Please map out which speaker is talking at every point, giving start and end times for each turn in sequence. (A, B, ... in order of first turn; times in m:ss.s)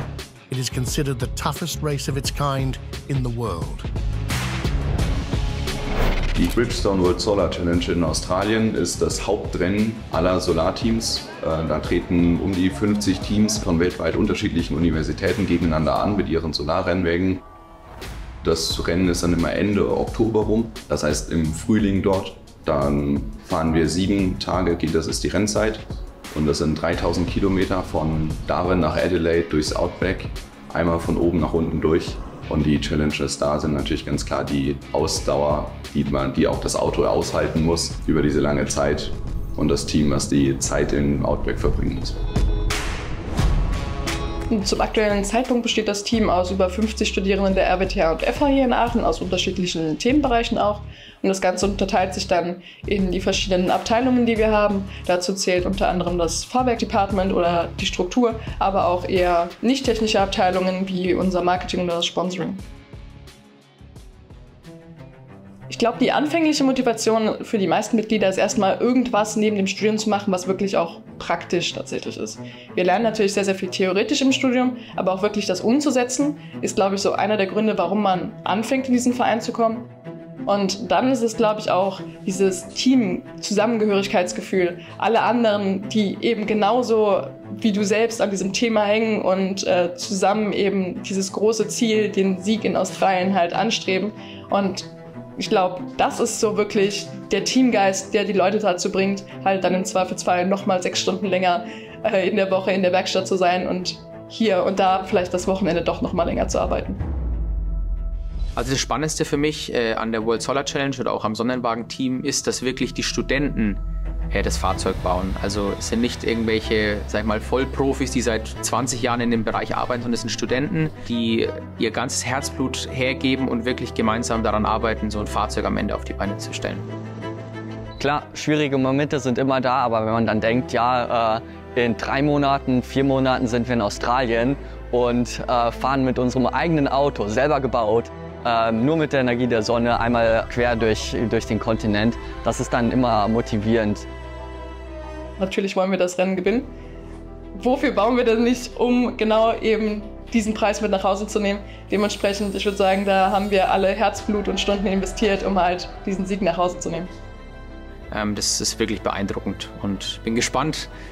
0:00.5-0:03.9 A
0:06.4-0:17.4 B
0:18.4-0:42.2 B
0:44.5-1:02.6 C
1:05.7-1:19.9 C
1:20.4-1:47.0 C
1:48.6-1:53.8 D
1:54.3-2:06.9 D
2:08.0-2:24.0 E
2:25.4-2:26.7 C
2:27.5-2:37.1 C
2:38.1-2:40.9 D